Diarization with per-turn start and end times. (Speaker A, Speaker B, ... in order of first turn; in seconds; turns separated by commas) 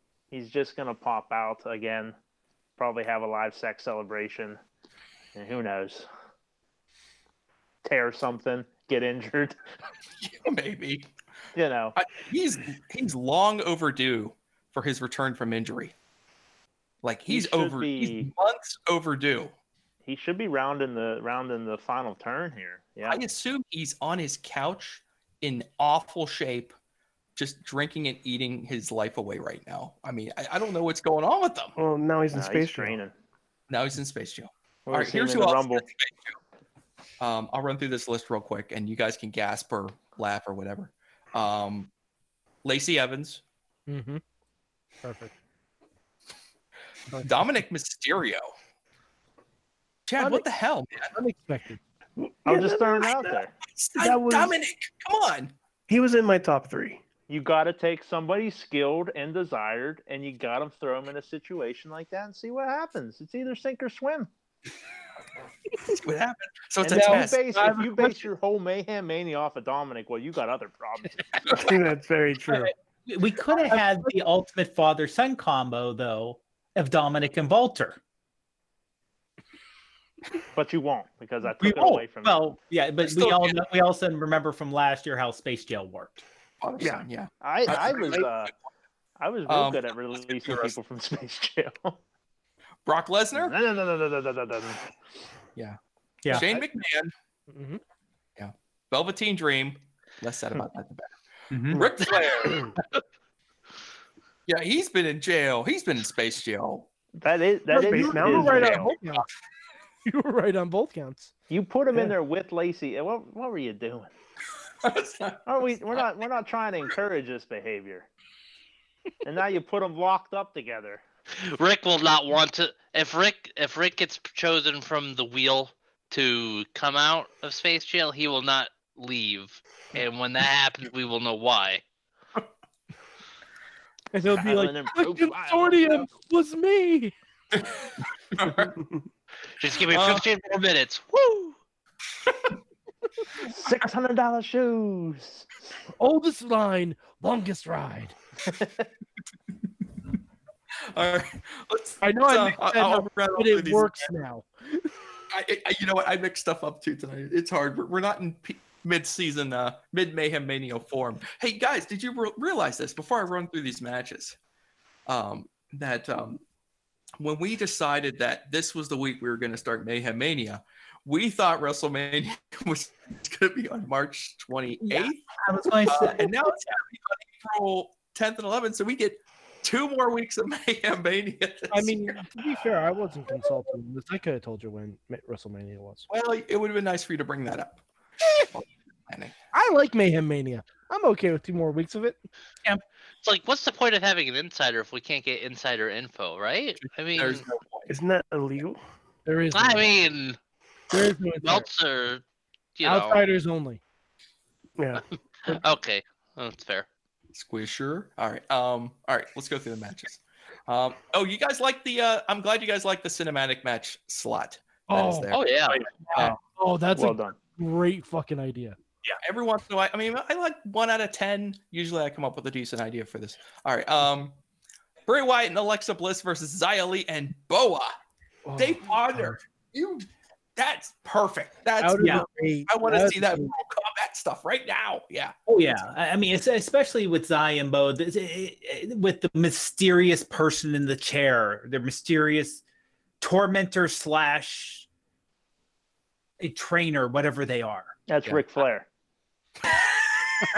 Speaker A: 0.3-2.1, Speaker A: 2.8-4.6, Speaker A: 5.3-6.1, Speaker A: 7.8-9.6, Speaker B: 10.2-11.1, Speaker A: 11.6-11.9, Speaker B: 11.9-15.9, Speaker B: 17.0-19.5, Speaker A: 17.3-18.3, Speaker A: 20.0-23.2, Speaker B: 23.1-26.8, Speaker B: 27.4-31.8, Speaker C: 31.8-33.0, Speaker A: 32.3-33.1, Speaker B: 33.7-36.4, Speaker A: 34.9-35.9, Speaker B: 37.2-41.9, Speaker B: 42.6-43.4, Speaker D: 43.9-44.2, Speaker D: 45.0-45.3, Speaker B: 47.2-48.4, Speaker B: 50.1-51.1, Speaker D: 50.2-50.5, Speaker D: 51.0-51.8, Speaker C: 52.2-53.4, Speaker A: 52.5-53.5, Speaker B: 53.6-55.5, Speaker C: 54.0-54.6, Speaker C: 55.9-57.0, Speaker A: 57.3-64.3, Speaker B: 66.0-67.4, Speaker A: 66.8-71.2, Speaker D: 66.9-68.3, Speaker C: 71.5-72.7, Speaker E: 72.5-78.0, Speaker D: 73.7-74.1, Speaker A: 80.5-82.5, Speaker E: 81.6-86.2, Speaker B: 83.0-83.6, Speaker B: 86.6-88.5, Speaker C: 86.8-87.1, Speaker A: 87.4-88.5, Speaker A: 89.2-92.0, Speaker B: 89.5-90.8, Speaker B: 92.9-93.6, Speaker A: 93.3-94.8, Speaker B: 96.3-97.1, Speaker D: 97.5-97.8, Speaker B: 98.4-101.2, Speaker E: 101.5-101.9, Speaker B: 101.7-102.7, Speaker B: 104.5-106.9, Speaker A: 107.2-109.0, Speaker D: 107.7-109.3, Speaker C: 107.7-108.9, Speaker D: 110.0-111.3, Speaker A: 111.5-114.1, Speaker B: 114.8-116.0, Speaker A: 115.5-118.1, Speaker A: 119.2-121.0, Speaker F: 121.5-131.8, Speaker D: 134.1-137.1, Speaker A: 134.4-136.1, Speaker B: 138.3-138.7, Speaker C: 138.7-139.0, Speaker F: 139.6-141.6, Speaker B: 139.9-140.3, Speaker A: 143.4-145.5, Speaker D: 146.0-148.2, Speaker A: 148.5-148.9, Speaker B: 150.9-154.1, Speaker D: 152.0-154.9, Speaker B: 155.3-164.4, Speaker B: 165.1-166.4, Speaker B: 167.2-175.2, Speaker E: 174.9-176.3, Speaker B: 175.9-182.2, Speaker D: 181.7-186.1, Speaker B: 186.1-187.8, Speaker B: 188.5-189.3, Speaker D: 189.5-192.2, Speaker F: 193.2-197.4, Speaker B: 196.8-197.9, Speaker C: 197.9-198.8, Speaker D: 199.3-199.9, Speaker F: 199.5-200.4, Speaker D: 200.9-201.7, Speaker F: 201.4-202.2, Speaker F: 202.8-203.2, Speaker D: 202.8-203.8, Speaker C: 204.8-205.6, Speaker F: 205.4-206.9, Speaker B: 207.3-215.5, Speaker D: 214.9-215.4, Speaker F: 215.3-215.9, Speaker D: 216.1-218.8, Speaker A: 217.0-217.4, Speaker B: 219.2-224.4, Speaker B: 225.1-227.9, Speaker D: 228.4-229.4, Speaker B: 228.6-235.3, Speaker D: 231.8-233.5, Speaker E: 232.0-232.2, Speaker E: 235.5-242.6, Speaker E: 243.2-244.9, Speaker E: 246.4-248.5, Speaker A: 248.1-248.9